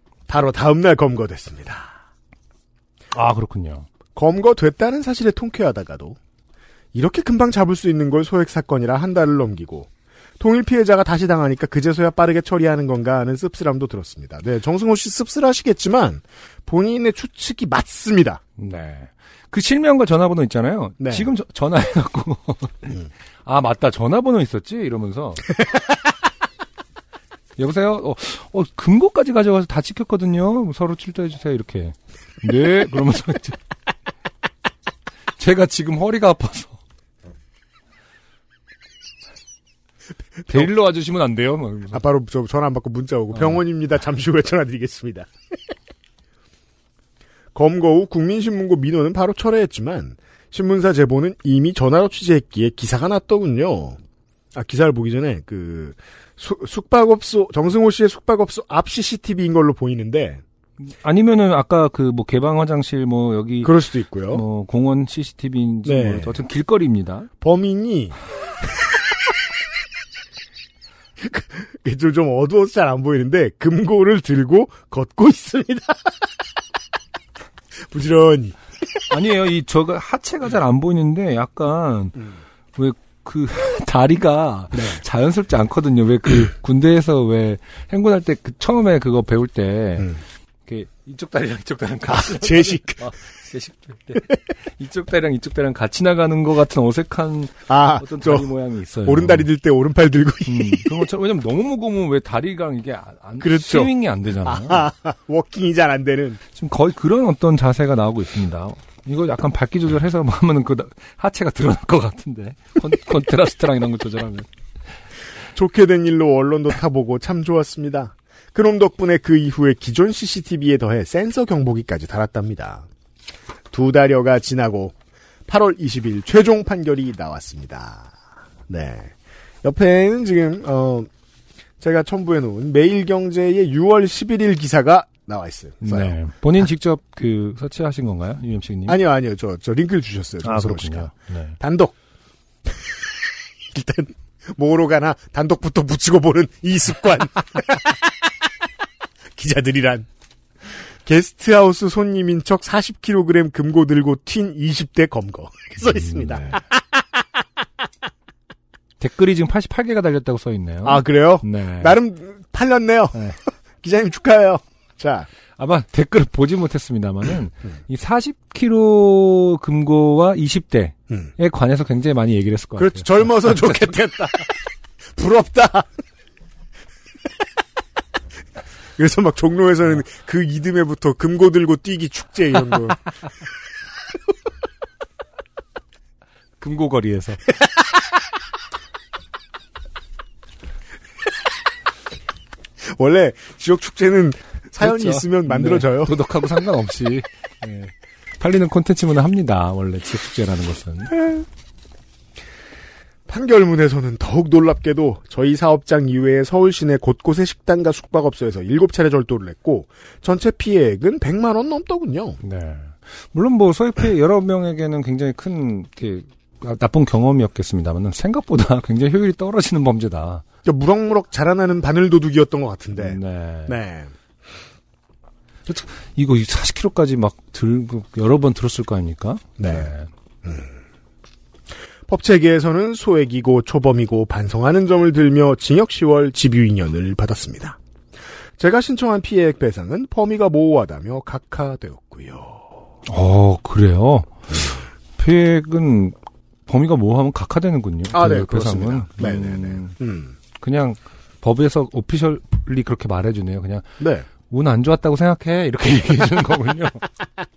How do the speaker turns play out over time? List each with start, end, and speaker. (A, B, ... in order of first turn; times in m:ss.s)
0:00.3-0:02.0 A
0:03.1-0:03.9 B
0:04.2-0:06.2 A
0:06.9-0:18.4 A
0:18.6-0:25.6 B
0:21.0-0:21.3 A
0:27.6-0:33.6 B
0:35.4-0:36.8 B
0:40.5-0:42.0 B
0:41.9-0:45.3 A
0:43.3-0:43.6 B
0:47.5-0:54.0 A
0:54.5-1:00.4 A
1:00.9-1:03.7 B
1:03.6-1:04.4 A
1:04.3-1:07.3 B
1:05.8-1:06.4 A
1:07.4-1:08.2 A
1:11.2-1:16.2 A
1:17.9-1:18.6 A
1:19.1-1:39.5 B
1:24.7-1:25.0 A
1:32.0-1:33.1 A
1:37.7-1:38.5 A
1:39.0-1:41.0 A
1:40.5-1:44.9 B
1:43.4-1:43.9 A
1:44.4-1:46.4 A
1:46.5-1:54.5 B
1:55.5-2:02.9 A
2:03.7-2:04.9 A
2:05.5-2:08.1 A
2:08.7-2:09.1 A
2:09.6-2:11.1 A
2:11.8-2:16.2 A
2:15.8-2:19.0 B
2:18.9-2:21.9 A
2:20.4-2:21.6 B
2:23.7-2:28.1 A
2:29.4-2:30.0 A
2:31.0-2:36.8 A
2:39.0-2:42.0 B
2:40.8-2:43.3 A
2:43.8-2:45.3 A
2:45.6-2:54.1 B
2:52.8-2:54.5 A
2:55.1-2:55.9 A
2:59.0-3:03.0 A
3:06.6-3:07.4 B
3:12.9-3:16.2 A
3:14.8-3:21.2 B
3:23.3-3:32.4 A
3:32.4-3:40.4 B
3:40.6-3:44.1 A
3:43.0-3:43.8 B
3:45.6-3:50.1 B
3:49.6-3:49.9 A
3:52.1-3:57.8 A
3:58.6-4:02.7 A
4:03.1-4:06.1 B
4:06.7-4:09.9 B
4:08.1-4:10.3 A
4:10.6-4:13.8 B
4:14.0-4:14.3 A
4:14.4-4:17.1 B